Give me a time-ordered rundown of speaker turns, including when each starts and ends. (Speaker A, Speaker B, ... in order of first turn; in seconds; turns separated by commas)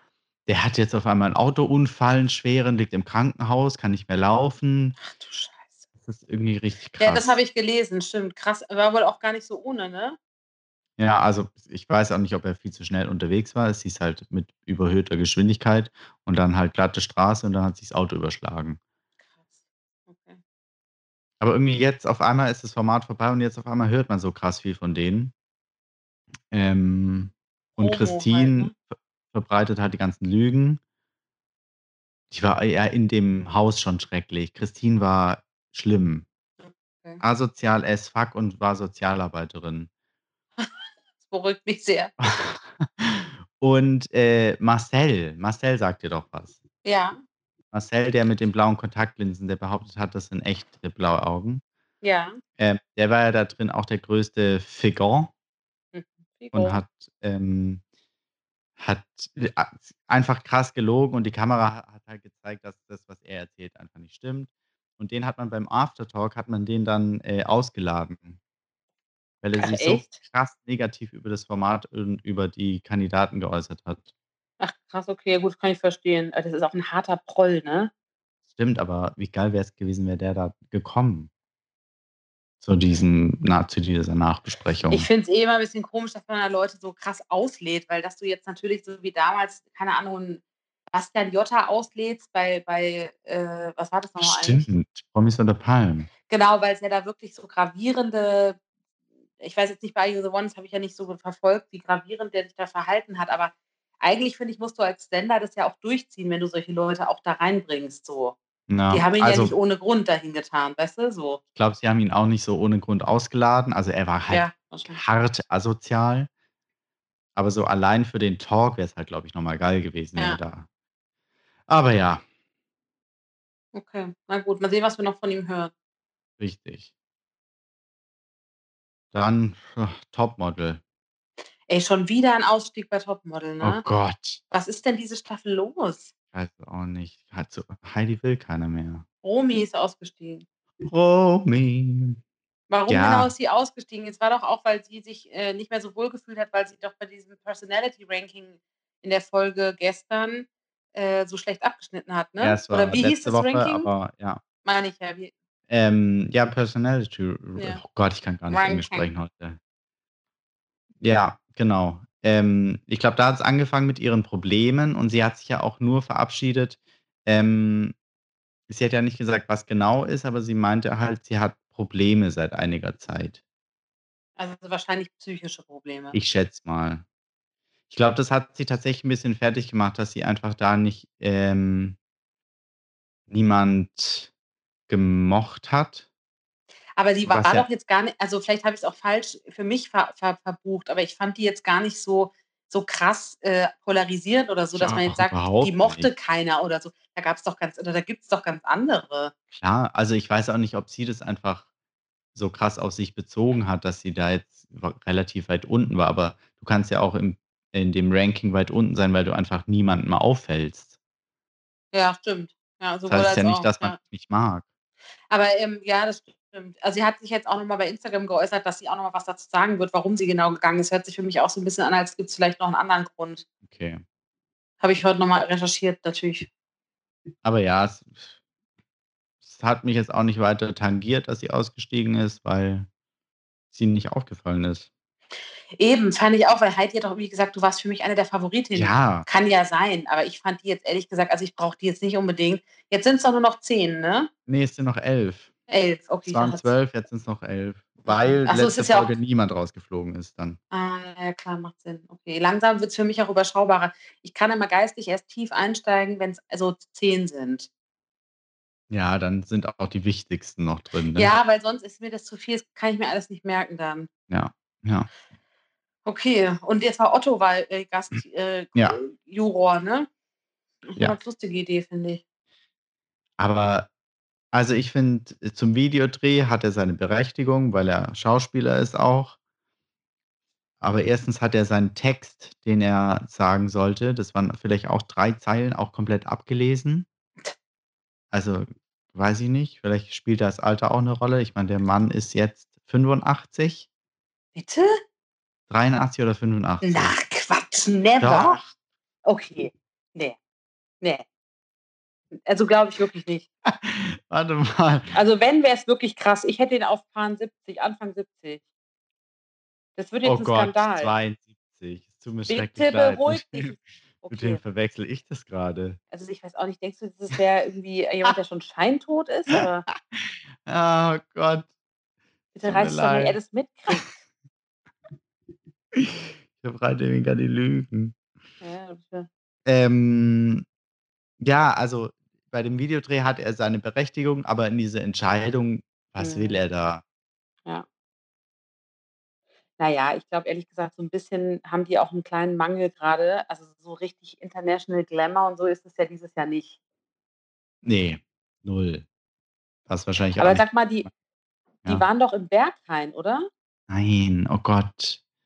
Speaker A: 0.5-5.0, Speaker B: 5.0-5.9, Speaker A: 6.0-7.4, Speaker B: 7.0-10.2, Speaker A: 11.0-18.8, Speaker B: 19.3-20.4, Speaker A: 21.4-25.3, Speaker A: 26.5-30.8, Speaker B: 27.8-28.7, Speaker A: 32.3-36.3, Speaker B: 36.6-37.2, Speaker A: 37.2-39.9, Speaker B: 40.6-42.1, Speaker A: 42.2-46.6, Speaker B: 46.8-47.2, Speaker A: 47.7-51.6, Speaker B: 52.0-52.4, Speaker A: 52.6-55.3, Speaker B: 55.9-56.8, Speaker A: 56.5-57.8, Speaker A: 58.8-68.4, Speaker A: 69.4-74.1, Speaker B: 69.6-70.2, Speaker B: 74.6-77.9, Speaker A: 78.5-81.3, Speaker A: 82.6-85.1, Speaker B: 84.9-94.7, Speaker A: 94.2-96.1, Speaker B: 96.3-98.6, Speaker B: 99.4-108.4, Speaker A: 108.7-109.5, Speaker B: 108.9-111.4, Speaker A: 111.6-116.3, Speaker B: 114.3-115.0, Speaker A: 117.4-120.7, Speaker A: 121.7-122.2, Speaker B: 123.7-125.7, Speaker A: 126.4-126.9, Speaker A: 129.1-130.8, Speaker B: 131.7-133.9, Speaker A: 133.6-134.4, Speaker B: 134.5-136.1, Speaker A: 136.3-139.1, Speaker B: 139.2-140.5, Speaker A: 140.8-142.2, Speaker B: 142.7-153.9, Speaker A: 142.9-143.3, Speaker A: 152.4-154.4, Speaker B: 154.6-155.3, Speaker A: 155.7-159.6, Speaker B: 157.6-157.8, Speaker B: 158.5-159.1, Speaker A: 161.0-168.0, Speaker A: 168.7-173.4, Speaker B: 174.4-176.2, Speaker A: 176.1-177.0, Speaker A: 177.9-182.0, Speaker A: 183.3-184.3, Speaker A: 184.9-186.1, Speaker B: 187.0-199.3, Speaker A: 187.2-187.7, Speaker A: 194.8-196.1, Speaker A: 199.5-201.7, Speaker A: 202.3-210.9, Speaker B: 211.9-214.0, Speaker A: 213.1-214.7, Speaker B: 215.3-223.4, Speaker A: 223.7-224.0, Speaker B: 224.8-226.5, Speaker A: 227.4-228.3, Speaker A: 229.4-232.9, Speaker A: 233.7-234.9, Speaker B: 235.8-244.3, Speaker A: 238.8-239.3, Speaker A: 244.5-245.5, Speaker B: 245.7-246.7, Speaker A: 246.3-250.6, Speaker B: 248.1-249.1, Speaker B: 250.7-257.7, Speaker A: 258.9-261.3, Speaker B: 261.1-264.1, Speaker A: 264.3-265.1, Speaker B: 266.1-270.1, Speaker B: 270.9-272.2, Speaker A: 273.4-273.9, Speaker A: 274.5-279.4, Speaker A: 280.8-287.1, Speaker A: 288.3-293.9, Speaker B: 294.6-294.9, Speaker A: 295.7-297.1, Speaker B: 296.8-298.6, Speaker A: 298.2-298.7, Speaker B: 299.2-300.4, Speaker B: 302.5-303.5, Speaker A: 303.7-305.1, Speaker B: 305.1-308.6, Speaker B: 310.0-311.1, Speaker A: 310.2-313.8, Speaker B: 312.5-314.6, Speaker A: 314.3-316.0, Speaker B: 316.1-319.9, Speaker A: 319.6-321.7, Speaker B: 322.5-324.2, Speaker A: 322.7-323.4, Speaker A: 325.9-328.2, Speaker B: 328.6-329.3, Speaker A: 329.7-330.6, Speaker A: 331.4-337.0, Speaker B: 336.2-336.6, Speaker B: 339.8-346.8, Speaker A: 347.8-349.1, Speaker A: 349.9-350.7, Speaker B: 350.4-351.1, Speaker B: 351.9-353.5, Speaker A: 353.9-355.2